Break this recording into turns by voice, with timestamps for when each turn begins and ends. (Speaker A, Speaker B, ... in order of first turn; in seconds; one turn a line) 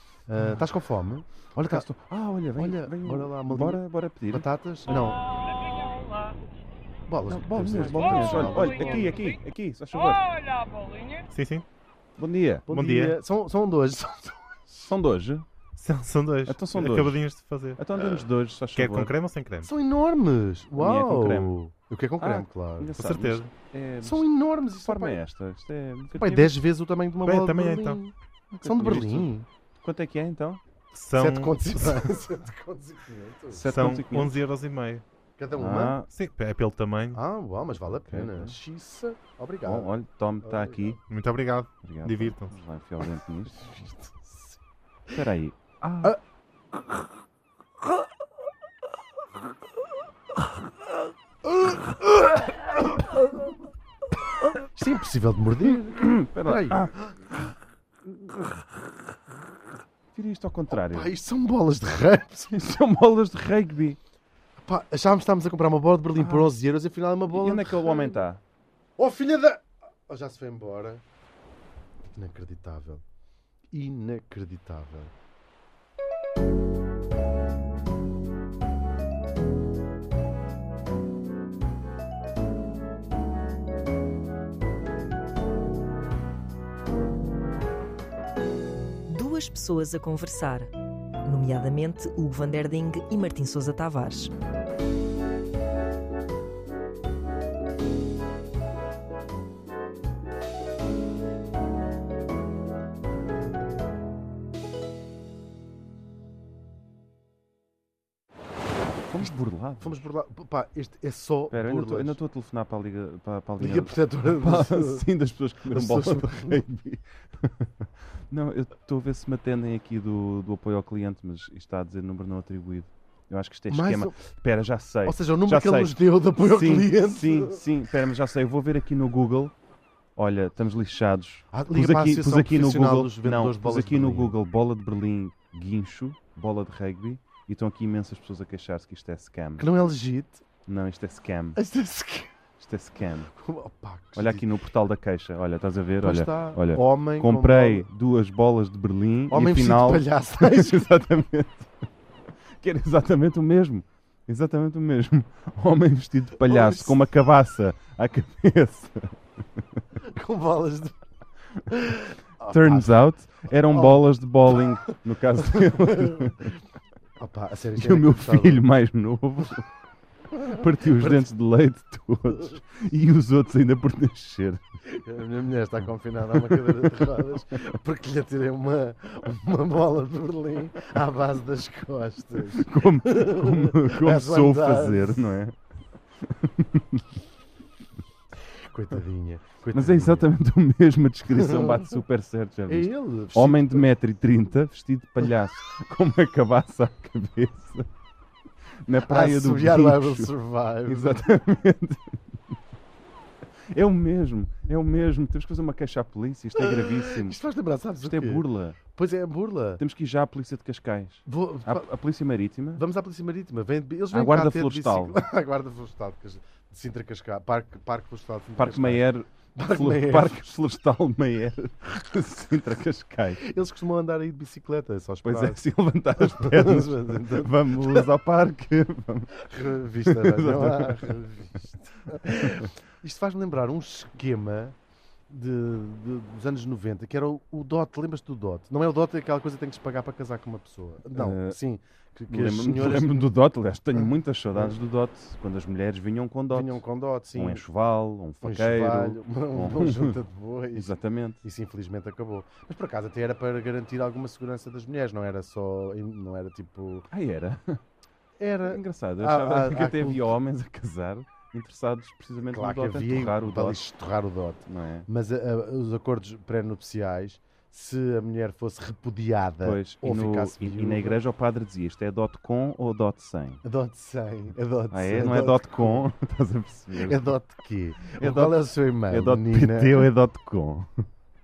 Speaker A: 0.3-1.9
Speaker B: 1.7-4.5
Speaker A: 2.6-5.2
Speaker C: 4.9-6.4
Speaker A: 7.1-9.2
Speaker B: 7.2-10.2
Speaker C: 7.7-9.4
Speaker C: 9.9-11.3
Speaker D: 11.3-11.7
Speaker B: 12.2-12.7
Speaker A: 12.7-14.9
Speaker D: 12.7-13.2
Speaker B: 14.8-15.5
Speaker D: 15.8-17.8
Speaker B: 16.5-17.2
Speaker B: 17.8-19.1
Speaker D: 18.8-19.7
Speaker A: 19.6-23.0
Speaker B: 20.8-21.6
Speaker B: 22.2-24.3
Speaker D: 23.0-23.5
Speaker A: 24.0-25.2
Speaker B: 24.8-26.5
Speaker A: 26.2-29.5
Speaker D: 27.2-28.0
Speaker B: 28.5-30.6
Speaker D: 30.9-32.0
Speaker A: 31.2-33.6
Speaker B: 33.5-34.4
Speaker D: 33.7-35.0
Speaker A: 35.4-36.0
Speaker B: 35.5-36.1
Speaker D: 36.1-37.2
Speaker A: 37.1-41.0
Speaker B: 37.9-38.6
Speaker B: 39.6-41.0
Speaker D: 41.1-42.6
Speaker B: 41.8-43.7
Speaker A: 43.5-44.6
Speaker B: 45.1-46.1
Speaker A: 54.7-57.2
Speaker B: 55.7-56.9
Speaker B: 60.1-61.1
Speaker A: 60.7-62.5
Speaker B: 62.5-64.0
Speaker A: 64.6-68.1
Speaker B: 66.2-66.5
Speaker B: 67.3-68.4
Speaker A: 69.0-71.0
Speaker A: 72.1-73.0
Speaker A: 73.7-75.1
Speaker E: 89.1-90.7
Speaker E: 91.2-94.3
Speaker B: 109.1-110.0
Speaker A: 109.8-112.2
Speaker B: 111.5-129.5
Speaker A: 113.6-115.0
Speaker A: 115.7-116.6
Speaker A: 123.7-124.2
Speaker A: 125.0-127.6
Speaker B: 130.2-139.7
Speaker A: 131.5-134.3
Speaker A: 139.6-140.4
Speaker B: 140.7-141.6
Speaker A: 141.6-142.3
Speaker B: 142.6-143.3
Speaker A: 143.3-144.5
Speaker B: 144.2-151.7
Speaker A: 146.0-147.9
Speaker A: 149.3-150.9
Speaker B: 152.6-159.8
Speaker A: 156.4-157.0
Speaker A: 160.1-161.0
Speaker A: 161.7-163.0
Speaker B: 162.4-166.5
Speaker A: 163.7-166.5
Speaker A: 167.2-168.6
Speaker B: 167.8-169.7
Speaker A: 170.4-171.2
Speaker B: 170.4-174.6
Speaker A: 174.9-185.3
Speaker B: 176.3-177.1
Speaker B: 182.3-185.6
Speaker B: 186.2-187.1
Speaker A: 188.7-190.3
Speaker B: 189.7-197.9
Speaker A: 191.3-191.9
Speaker A: 192.7-193.9
Speaker B: 198.8-200.3
Speaker A: 199.0-201.3
Speaker B: 200.9-202.6
Speaker B: 203.7-207.4
Speaker A: 206.6-209.8
Speaker B: 208.0-208.8
Speaker B: 209.8-212.8
Speaker A: 211.3-211.9
Speaker A: 212.8-220.5
Speaker B: 214.1-215.2
Speaker B: 218.6-223.5
Speaker A: 223.4-225.6
Speaker B: 225.2-229.4
Speaker A: 226.2-228.1
Speaker A: 229.4-234.8
Speaker B: 230.0-231.2
Speaker B: 232.3-232.7
Speaker A: 235.3-243.2
Speaker B: 241.1-241.6
Speaker B: 242.3-246.8
Speaker A: 244.0-244.8
Speaker A: 246.5-247.6
Speaker B: 247.3-250.2
Speaker A: 248.4-257.1
Speaker B: 250.7-251.4
Speaker B: 257.1-257.8
Speaker A: 258.4-260.4
Speaker B: 258.6-263.8
Speaker A: 262.5-271.2
Speaker B: 264.7-265.1
Speaker B: 269.6-273.6
Speaker A: 273.6-276.1
Speaker B: 274.9-277.2
Speaker A: 276.9-280.1
Speaker B: 278.1-280.9